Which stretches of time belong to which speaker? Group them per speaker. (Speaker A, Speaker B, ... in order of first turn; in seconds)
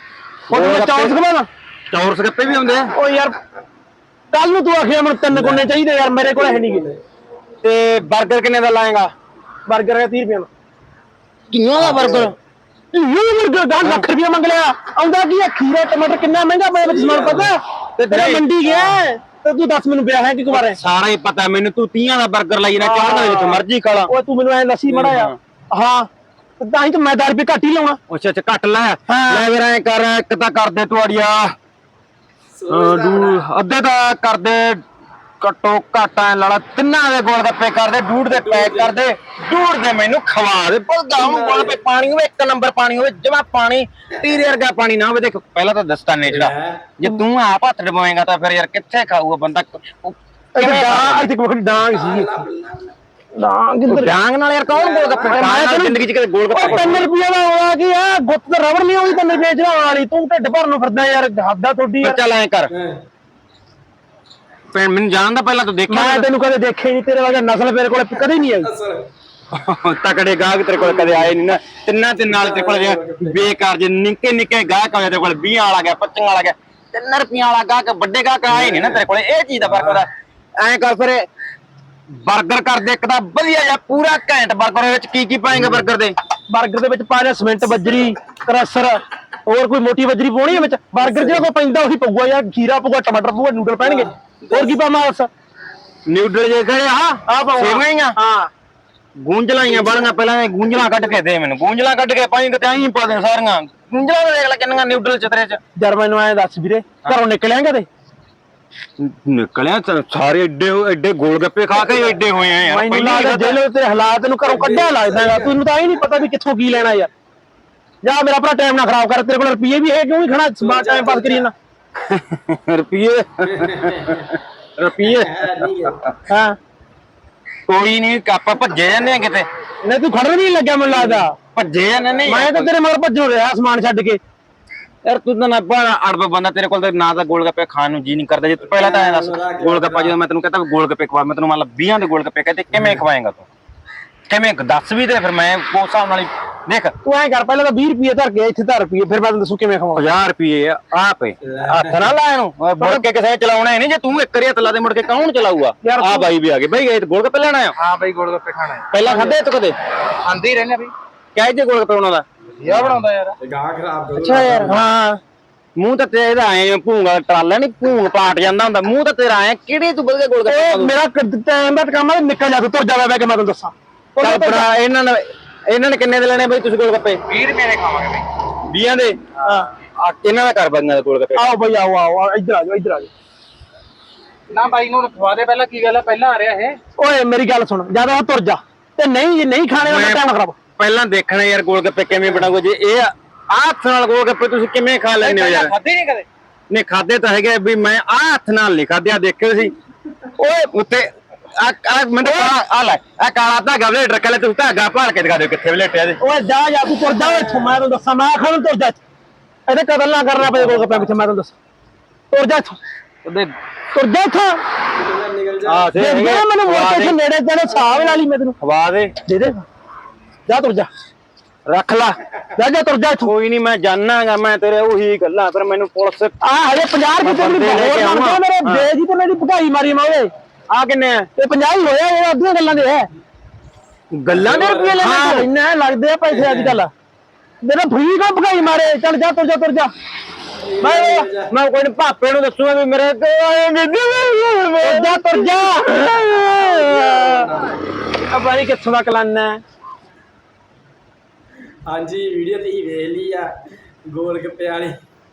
Speaker A: 0.5-1.5, 2.9-3.3, 4.3-6.9, 9.7-10.5, 11.9-12.3, 12.9-20.8, 22.8-26.1, 26.6-28.0, 29.1-29.5, 50.6-52.3, 53.3-54.1, 55.3-62.2, 65.9-68.7, 86.5-95.3, 97.3-98.5, 105.8-107.9, 112.7-117.1, 118.0-121.5, 126.3-126.5, 129.8-131.3, 132.2-134.2, 147.0-150.0, 152.8-153.0, 155.8-156.3, 164.6-165.2, 170.5-174.7, 179.4-179.7, 181.3-183.1, 187.0-190.5, 200.4-200.7, 202.2-202.5, 206.2-209.0, 209.7-211.5, 212.3-212.8, 213.9-214.6, 215.9-218.6, 219.3-219.7, 220.5-220.9, 222.6-223.3, 226.4-230.3, 231.4-233.1, 235.0-236.9, 237.6-239.9, 240.8-241.2, 244.8-247.5, 248.3-249.6
Speaker B: 0.5-1.2, 1.9-2.9, 7.6-9.1, 11.5-12.3, 18.0-19.0, 20.5-24.1, 24.9-25.4, 28.1-31.5, 32.7-34.8, 35.4-51.3, 53.9-57.1, 62.0-62.7, 64.7-66.3, 69.5-81.2, 82.2-86.2, 96.0-98.2, 99.2-105.6, 109.0-113.6, 122.1-126.1, 127.7-129.5, 131.5-132.7, 135.0-143.5, 144.3-146.9, 149.9-157.8, 158.9-159.8, 161.3-162.2, 164.2-164.9, 165.8-170.9, 174.2-177.2, 178.7-179.2, 180.0-181.5, 189.8-190.2, 190.8-195.7, 196.7-199.7, 200.7-206.2, 210.4-210.9, 213.2-213.5, 215.7-217.2, 218.6-219.2, 221.7-222.2, 223.2-226.3, 227.2-228.9, 230.7-231.3, 234.1-235.5, 240.9-247.2
Speaker C: 5.3-5.7, 6.3-7.0, 16.8-17.5, 32.5-33.4, 38.3-38.9, 41.2-41.8, 46.3-46.9, 51.8-52.9, 54.7-55.4, 62.7-63.0, 68.6-69.1, 70.9-71.3, 72.3-73.5, 78.5-79.0, 79.6-80.1, 85.5-85.8, 91.1-91.4, 93.8-94.8, 99.7-100.1, 114.4-115.6, 120.6-121.5, 123.5-124.3, 125.0-126.0, 131.0-131.2, 138.8-140.2, 142.7-143.0, 151.4-152.1, 162.7-164.8, 207.0-207.8, 214.9-215.9, 217.8-218.1, 234.3-235.0, 236.3-236.8, 240.6-241.5, 246.8-247.8, 251.8-255.0
Speaker D: 157.8-159.3, 160.2-160.9, 162.6-163.3, 177.3-178.3, 184.5-186.8, 195.2-196.3